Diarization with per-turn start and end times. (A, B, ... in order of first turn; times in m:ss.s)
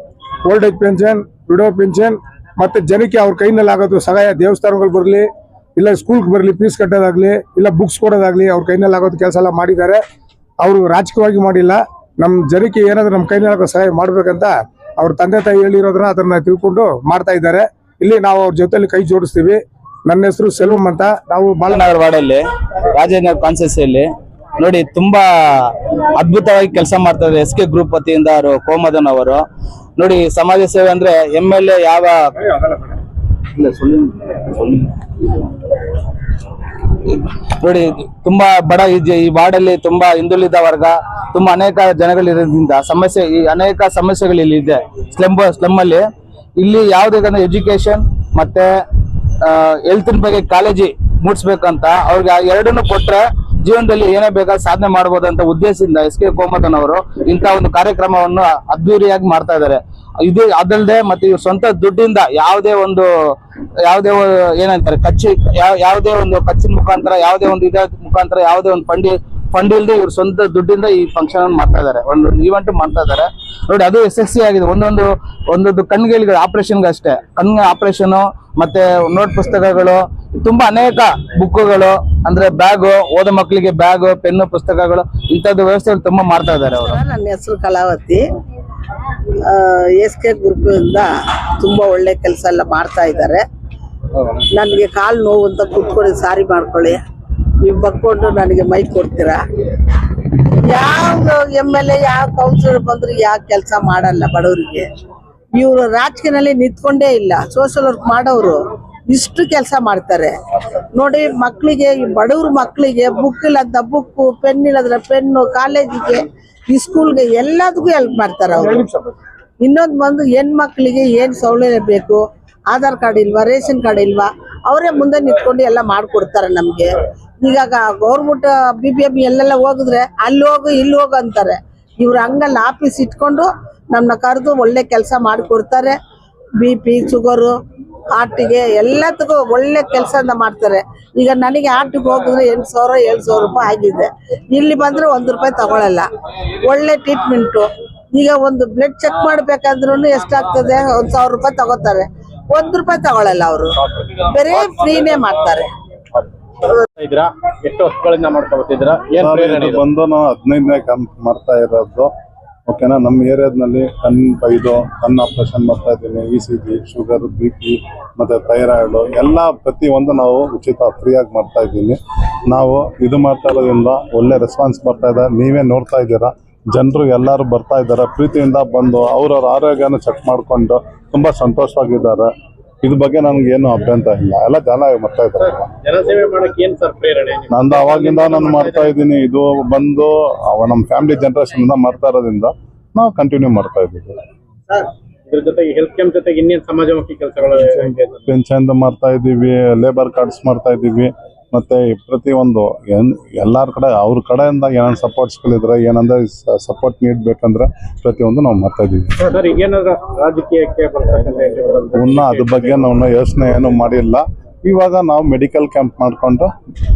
0:00.4-0:10.0 A
0:10.6-0:21.8 A
0:21.7-0:29.4 B
0:30.0-0:32.3 B
0:33.5-0:35.0 B
0:37.0-0:46.0 B
0:46.6-0:48.7 B
0:49.4-1:03.1 B
1:03.8-1:27.0 B
1:26.7-1:28.2 C
1:29.4-1:33.5 C
1:34.5-1:37.0 C
1:37.6-1:39.4 C
1:40.5-1:44.9 C
1:45.6-1:50.4 C
1:50.9-1:58.8 C
1:58.6-1:59.1 A
1:59.6-2:16.0 C
2:16.6-2:17.6 C
2:18.1-2:35.7 C
2:37.0-2:39.8 D
2:39.2-2:42.1 E
2:42.7-3:02.3 E
3:02.8-3:05.7 E
3:05.8-3:08.9 D
3:07.5-3:14.2 E
3:14.7-3:18.2 D
3:18.3-3:29.3 E
3:29.3-3:32.9 D
3:31.9-3:36.5 E